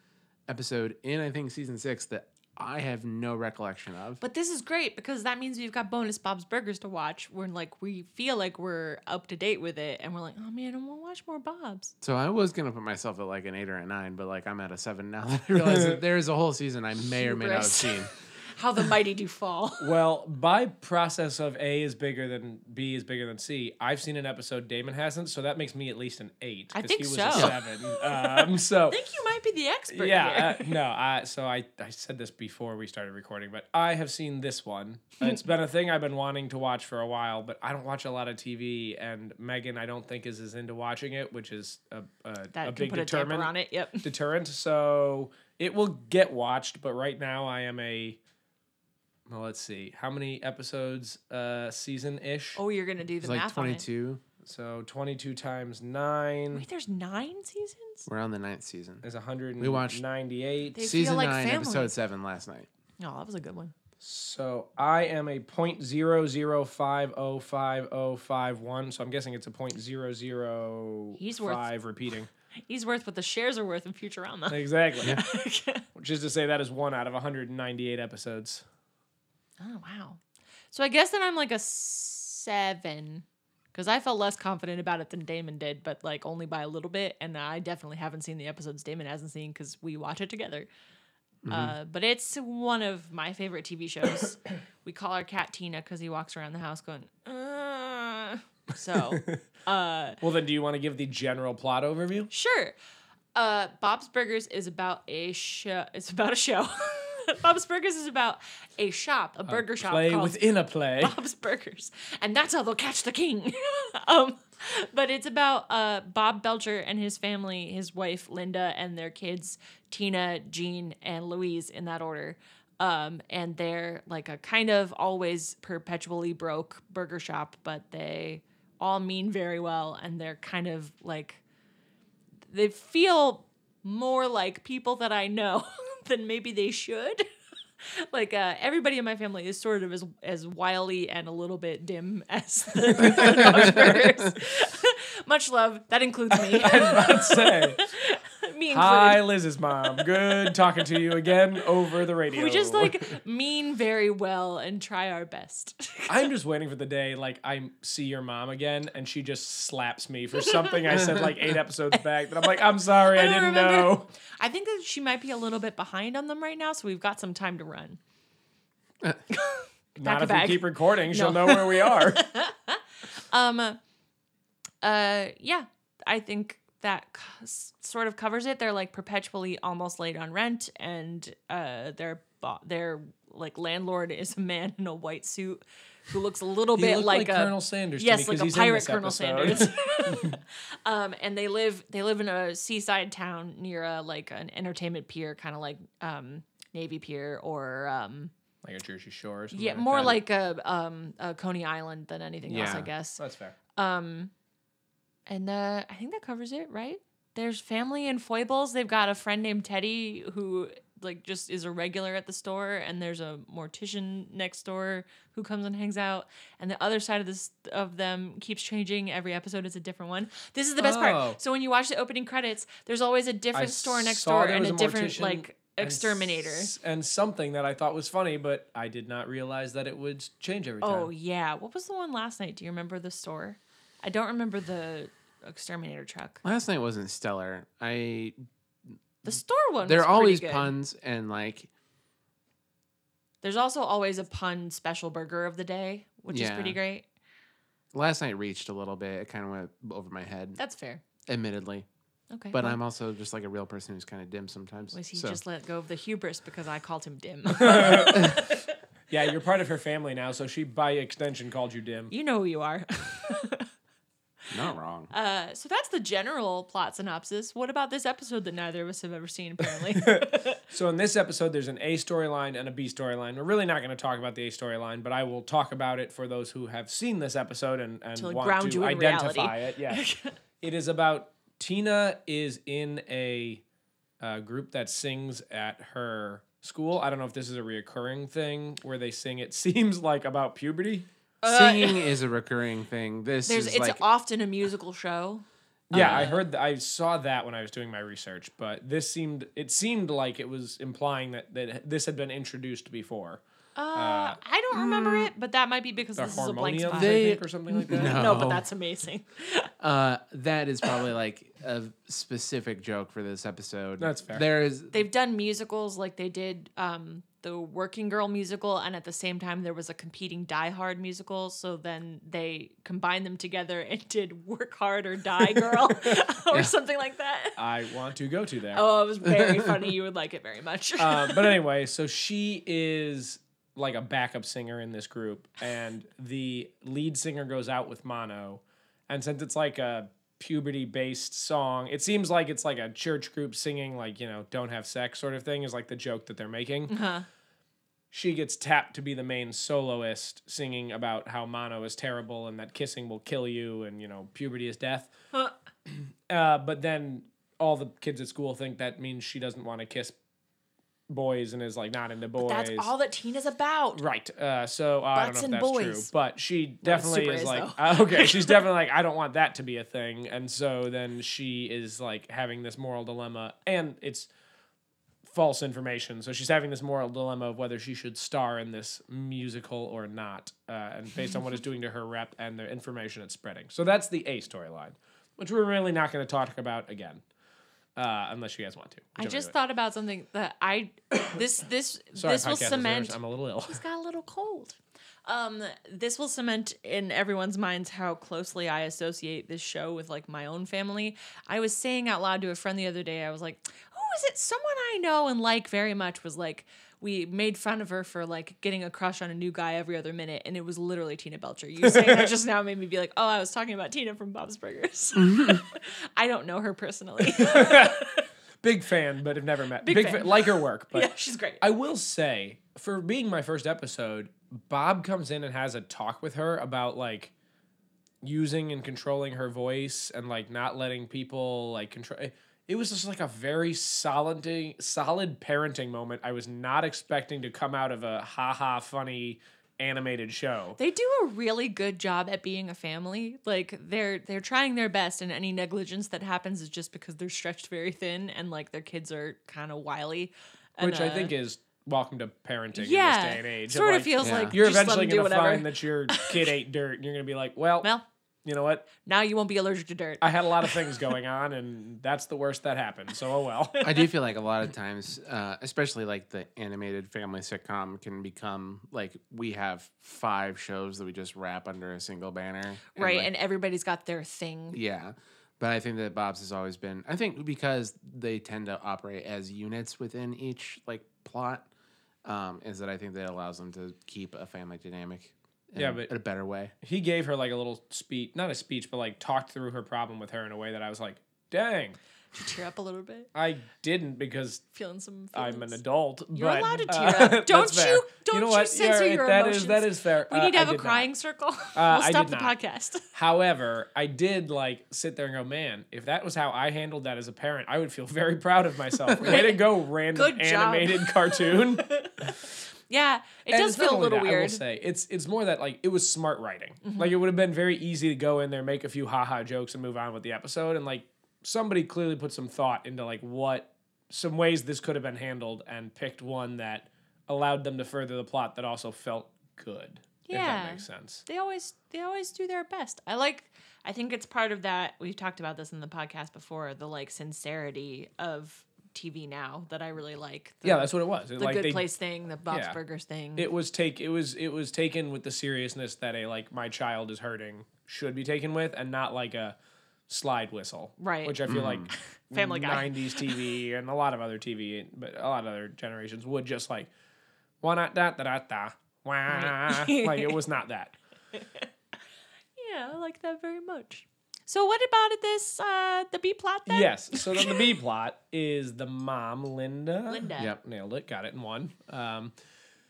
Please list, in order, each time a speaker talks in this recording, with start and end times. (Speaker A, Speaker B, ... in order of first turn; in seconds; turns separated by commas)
Speaker A: 0.5-4.2, Speaker B: 4.2-11.9, Speaker A: 12.0-18.1, Speaker C: 15.5-16.0, Speaker B: 17.2-20.0, Speaker C: 19.8-29.0, Speaker B: 26.7-30.7, Speaker C: 29.9-43.5, Speaker B: 42.5-44.1, Speaker C: 44.0-48.2, Speaker C: 49.3-52.6, Speaker B: 52.5-53.8, Speaker A: 53.2-54.2, Speaker C: 54.4-56.6, Speaker B: 56.5-58.1, Speaker A: 58.1-59.0, Speaker C: 59.0-60.8, Speaker A: 59.6-60.0, Speaker B: 60.8-61.9, Speaker A: 60.8-62.7, Speaker B: 63.0-63.7, Speaker C: 64.0-72.3, Speaker B: 71.2-71.7, Speaker B: 72.6-75.8, Speaker C: 74.5-75.2, Speaker C: 75.9-78.6, Speaker B: 79.6-80.2, Speaker B: 80.7-90.7, Speaker A: 91.4-91.7, Speaker B: 91.5-100.2, Speaker C: 100.2-102.3, Speaker B: 102.3-102.7, Speaker B: 103.3-110.4, Speaker C: 109.5-111.2, Speaker B: 111.0-131.4, Speaker B: 132.5-137.2, Speaker B: 137.9-151.0, Speaker C: 142.8-144.1, Speaker A: 143.2-143.8, Speaker C: 146.3-147.8, Speaker C: 148.7-153.1, Speaker B: 152.3-156.3, Speaker C: 156.1-164.1, Speaker B: 163.1-168.0, Speaker B: 169.3-173.8, Speaker C: 170.0-172.2, Speaker B: 174.8-198.3, Speaker C: 186.7-190.4, Speaker C: 198.6-200.2, Speaker B: 199.5-203.2, Speaker A: 202.4-202.9, Speaker C: 202.7-203.6, Speaker B: 203.7-204.3, Speaker B: 205.3-226.7, Speaker C: 220.8-221.4, Speaker C: 223.5-231.1, Speaker B: 230.8-236.4, Speaker A: 236.4-238.4, Speaker A: 239.2-241.7, Speaker B: 239.2-240.7, Speaker B: 243.4-247.0, Speaker A: 246.3-246.8, Speaker A: 247.9-250.6, Speaker B: 250.6-251.0, Speaker A: 251.2-251.8, Speaker B: 252.3-252.8, Speaker A: 252.5-255.4, Speaker B: 254.9-258.7, Speaker C: 257.5-258.4, Speaker C: 259.1-262.1, Speaker B: 262.1-263.7, Speaker A: 264.5-265.1, Speaker B: 265.1-270.6, Speaker C: 269.9-280.1, Speaker B: 278.1-280.3, Speaker C: 280.6-283.6, Speaker C: 284.2-291.1, Speaker B: 291.4-292.2, Speaker A: 291.4-294.0, Speaker B: 293.4-296.4, Speaker C: 295.9-303.4, Speaker A: 295.9-296.3, Speaker B: 303.8-309.7, Speaker C: 303.9-304.4, Speaker C: 306.1-308.3, Speaker A: 306.9-308.7, Speaker A: 309.8-315.0, Speaker C: 314.0-314.5, Speaker B: 314.9-327.6, Speaker C: 327.6-328.8, Speaker B: 328.7-331.6, Speaker C: 331.0-346.9, Speaker B: 346.9-347.2, Speaker C: 348.1-355.1, Speaker C: 355.9-360.1, Speaker C: 361.1-362.9, Speaker B: 362.4-364.0, Speaker C: 363.9-374.3, Speaker B: 365.1-366.1, Speaker B: 366.8-368.6, Speaker C: 375.2-387.2, Speaker C: 387.9-389.5, Speaker B: 389.2-393.2, Speaker C: 392.1-393.8, Speaker B: 393.7-418.2, Speaker C: 411.8-412.3, Speaker A: 415.2-415.6, Speaker C: 417.3-418.0, Speaker C: 418.6-421.1, Speaker B: 419.8-421.6, Speaker C: 421.6-427.3, Speaker C: 428.2-440.8, Speaker B: 440.8-451.3, Speaker C: 450.8-457.9, Speaker B: 452.7-456.4, Speaker A: 454.2-454.5, Speaker C: 458.4-458.9, Speaker B: 459.0-461.1, Speaker C: 460.2-463.9, Speaker A: 463.8-473.3, Speaker B: 472.9-474.8, Speaker A: 474.7-481.6, Speaker A: 482.2-486.7, Speaker C: 485.8-486.1, Speaker C: 486.8-492.0, Speaker B: 492.3-493.3, Speaker C: 493.3-494.6, Speaker B: 494.7-495.8, Speaker C: 495.3-501.1, Speaker B: 496.3-503.1, Speaker C: 501.7-502.5, Speaker C: 503.1-512.3, Speaker B: 509.2-514.6, Speaker C: 513.5-531.2, Speaker B: 516.8-517.1, Speaker B: 530.2-543.5, Speaker C: 540.6-541.8, Speaker C: 542.5-542.8, Speaker C: 543.4-549.5, Speaker C: 550.1-556.9, Speaker B: 551.0-553.5, Speaker A: 551.5-551.9, Speaker C: 557.6-561.0, Speaker B: 559.3-560.4, Speaker B: 562.5-567.8, Speaker C: 566.7-572.3, Speaker B: 570.1-570.5